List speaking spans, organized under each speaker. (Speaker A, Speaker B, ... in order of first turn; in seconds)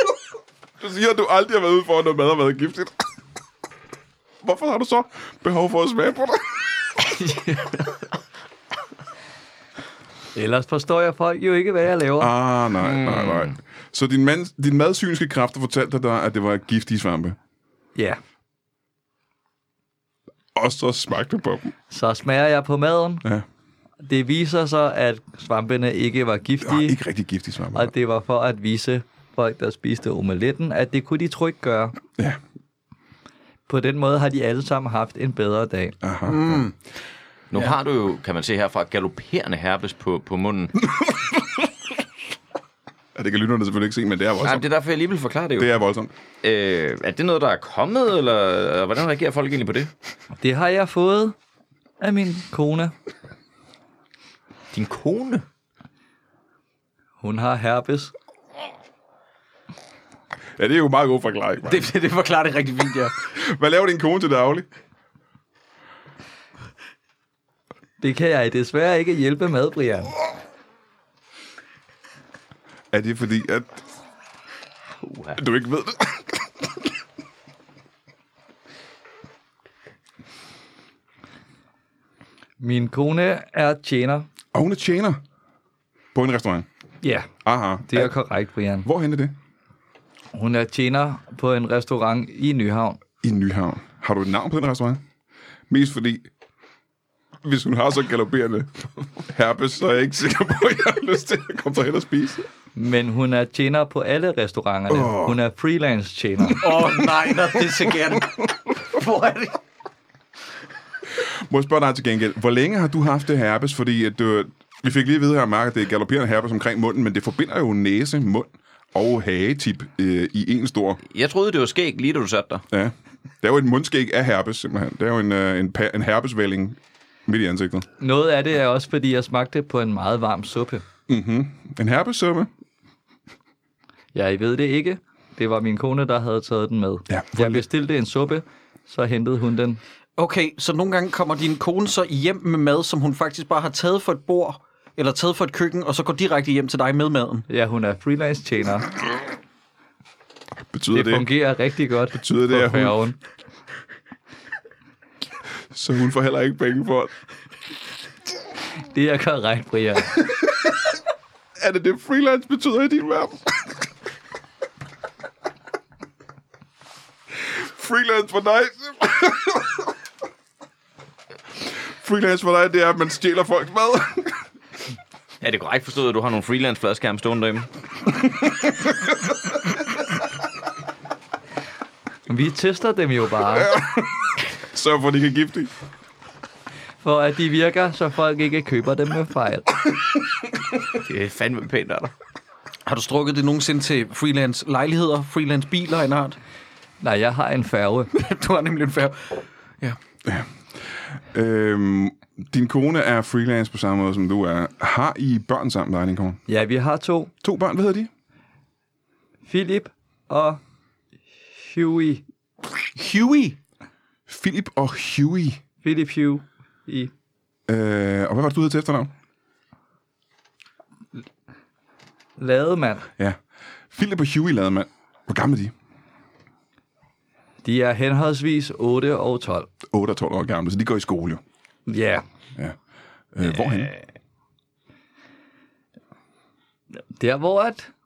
Speaker A: 0.8-3.0, 4.4-6.6, 12.2-17.4, 20.5-21.7, 26.6-27.9, 36.0-36.7, 43.1-44.6, 45.6-46.1, 60.6-61.9, 63.4-64.7, 72.9-73.8, 75.3-76.4, 84.5-85.2, 86.1-86.7, 87.4-88.1, 88.8-89.3, 93.2-95.0, 95.7-96.3, 97.4-102.4, 104.9-105.4, 111.2-121.0, 122.7-127.9, 131.1-132.5, 137.1-137.6, 150.7-151.3, 152.1-153.0, 155.7-157.1, 161.6-163.5, 167.4-169.7, 171.9-174.3, 183.6-184.1, 184.6-185.7, 200.2-206.4, 207.4-208.1, 214.3-215.6, 217.7-219.1, 223.9-225.7, 229.9-231.4, 233.3-234.0
Speaker B: 10.3-12.3, 21.9-23.2, 24.0-27.0, 27.7-31.9, 33.7-36.0, 50.4-51.3, 52.0-52.9, 57.2-58.1, 68.0-70.1, 82.6-84.3, 87.0-87.3, 87.9-88.9, 90.3-93.0, 102.7-106.7, 128.0-130.8, 134.1-139.8, 147.5-148.9, 150.9-153.2, 158.9-160.2, 182.3-183.7, 187.0-189.7, 197.0-198.1, 206.5-207.3, 209.4-210.6, 211.5-212.2, 215.8-217.1, 222.4-223.1, 227.6-229.7, 231.9-232.2, 237.2-237.9
Speaker C: 12.8-13.5, 37.5-40.7, 44.4-45.7, 46.4-49.9, 54.7-55.4, 75.0-75.3, 121.1-122.7, 175.4-177.7, 190.9-192.1
Speaker D: 36.2-36.7, 61.6-63.1, 106.6-109.6, 140.2-147.4, 192.8-196.4, 198.1-200.0, 212.9-213.6